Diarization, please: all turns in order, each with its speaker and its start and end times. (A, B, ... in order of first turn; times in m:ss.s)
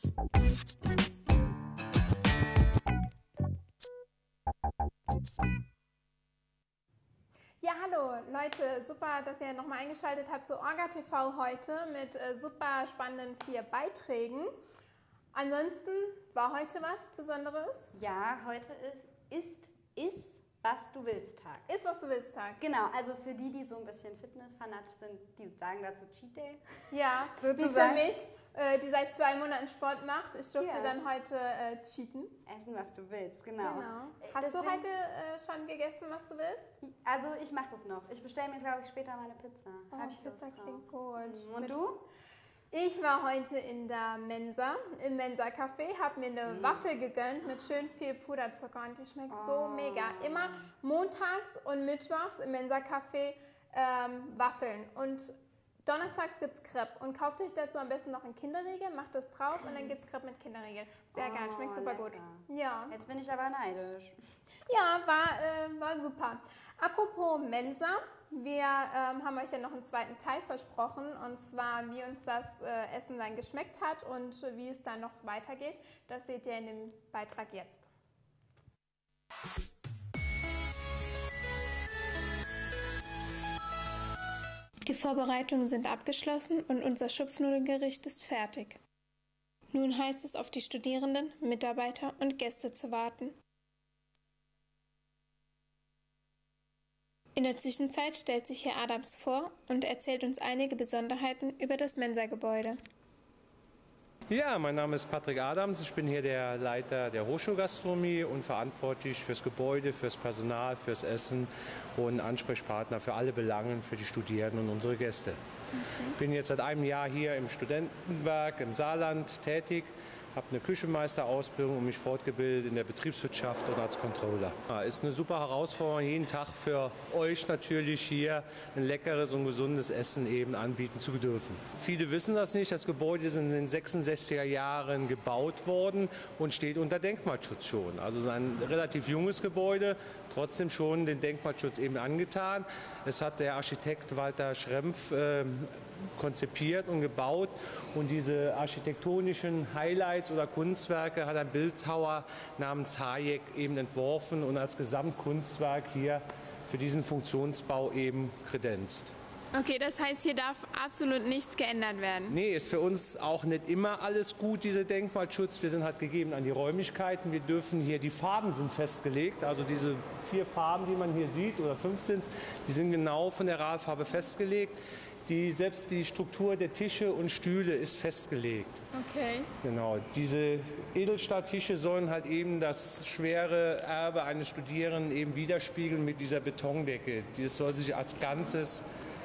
0:07.6-0:14.6 A
0:15.3-0:17.9 A
0:17.9-0:21.7 B
0:21.7-0:22.6 A
0:22.6-0:26.6 B
0:26.9-0:32.3 A
0:27.4-0:28.1 B
0:30.6-0:31.0 B
0:32.5-0:34.8 B
0:33.6-0:36.7 A
0:36.8-0:42.0 B
0:39.9-0:41.9 A
0:42.7-0:55.3 A
0:46.5-0:46.8 B
0:49.3-0:50.7 B
0:55.9-1:02.9 A
0:59.6-0:59.9 B
1:01.1-1:04.2 B
1:04.7-1:17.9 A
1:24.8-1:28.8 A
1:29.7-1:33.3 A
1:37.4-1:42.8 A
1:44.3-1:55.4 C
1:55.8-1:56.1 A
1:56.1-2:39.2 C
2:39.5-2:42.3 A
2:42.3-2:58.8 C
2:58.9-2:59.5 A
2:59.6-3:08.8 C